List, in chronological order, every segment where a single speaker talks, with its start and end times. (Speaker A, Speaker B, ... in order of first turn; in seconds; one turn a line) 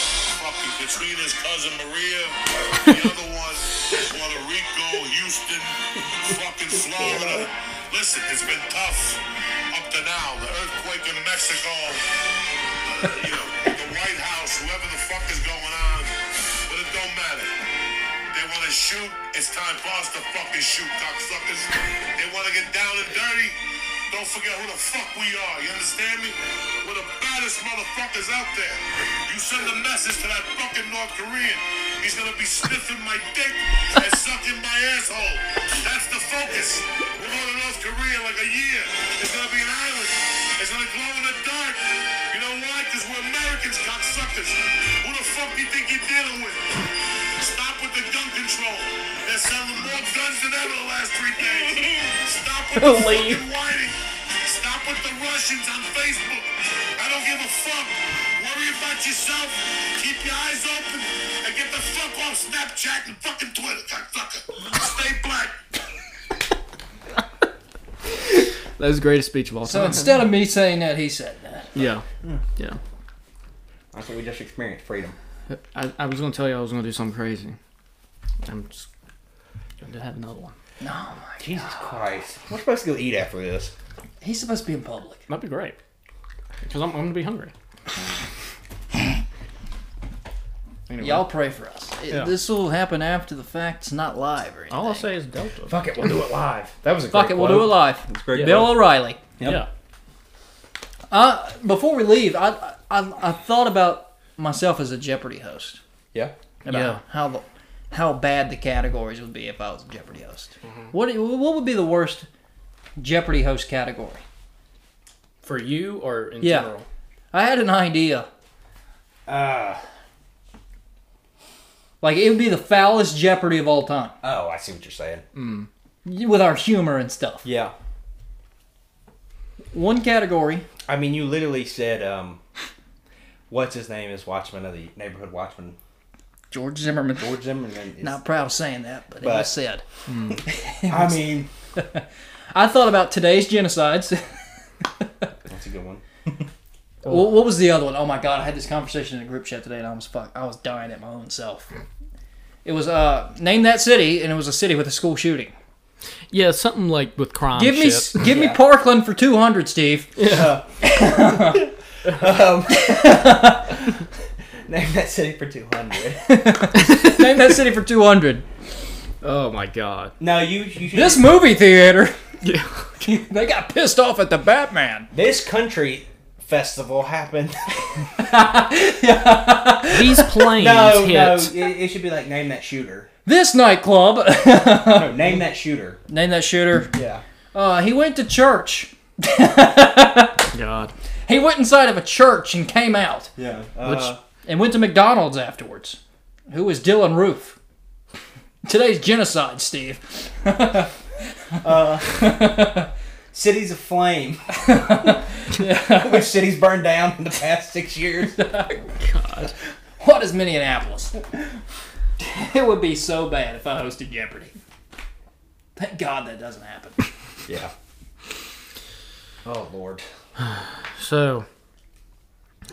Speaker A: 0.3-12.1
Speaker B: 7.0-7.5
Speaker A: 12.9-16.1
Speaker A: 16.7-17.5
Speaker A: 18.3-23.6
Speaker A: 24.1-65.6
Speaker C: 52.8-53.4
Speaker C: 68.2-70.2
Speaker D: 69.6-71.7
Speaker C: 71.8-72.0
Speaker B: 71.8-72.4
Speaker B: 73.9-75.2
Speaker C: 75.5-77.6
Speaker C: 78.5-78.9
Speaker C: 79.8-80.5
Speaker D: 80.8-82.0
Speaker B: 81.4-83.7
Speaker D: 84.2-85.2
Speaker C: 85.3-85.8
Speaker C: 86.7-87.5
Speaker C: 90.9-91.3
Speaker D: 91.0-95.1
Speaker C: 94.7-95.8
Speaker B: 95.7-99.7
Speaker D: 97.1-99.2
Speaker C: 99.4-99.7
Speaker D: 101.1-105.8
Speaker D: 106.7-112.3
Speaker C: 106.7-107.0
Speaker D: 113.0-114.2
Speaker C: 115.4-116.9
Speaker D: 116.4-116.7
Speaker D: 117.3-118.3
Speaker B: 119.3-119.8
Speaker D: 122.0-124.2
Speaker B: 124.2-125.2
Speaker C: 125.3-125.7
Speaker D: 126.0-127.5
Speaker B: 127.4-127.7
Speaker D: 129.7-130.7
Speaker B: 130.9-132.4
Speaker B: 133.5-135.8
Speaker D: 136.5-137.4
Speaker B: 137.2-138.2
Speaker D: 138.0-139.8
Speaker B: 139.2-139.5
Speaker C: 140.1-140.4
Speaker D: 140.4-144.4
Speaker B: 140.9-141.5
Speaker B: 145.5-146.5
Speaker D: 147.1-151.7
Speaker D: 152.7-155.5
Speaker C: 156.3-158.2
Speaker D: 157.6-160.2
Speaker B: 158.2-158.6
Speaker C: 160.2-160.6
Speaker B: 160.2-164.1
Speaker D: 160.8-161.7
Speaker D: 162.7-163.8
Speaker B: 164.7-166.6
Speaker D: 166.2-168.4
Speaker C: 166.7-167.3
Speaker C: 169.2-170.2
Speaker B: 170.2-171.4
Speaker D: 170.9-172.2
Speaker C: 172.4-173.1
Speaker D: 173.0-175.1
Speaker B: 175.1-177.8
Speaker D: 178.2-180.3
Speaker C: 179.9-181.6
Speaker B: 180.5-183.1
Speaker D: 183.2-185.3
Speaker B: 184.9-186.0
Speaker D: 186.1-186.9
Speaker B: 186.9-187.2
Speaker D: 187.5-190.5
Speaker C: 190.5-190.9
Speaker D: 191.3-193.3
Speaker B: 193.4-194.2
Speaker D: 194.4-196.0
Speaker D: 196.5-197.6
Speaker D: 198.6-200.9
Speaker D: 201.5-202.9
Speaker B: 201.6-202.6
Speaker B: 203.3-205.1
Speaker D: 204.5-206.4
Speaker B: 205.8-208.4
Speaker D: 208.3-208.9
Speaker C: 209.0-209.5
Speaker D: 210.0-211.4
Speaker D: 212.2-214.6
Speaker D: 215.8-217.1
Speaker B: 217.5-217.7
Speaker B: 219.4-220.1
Speaker C: 220.4-221.5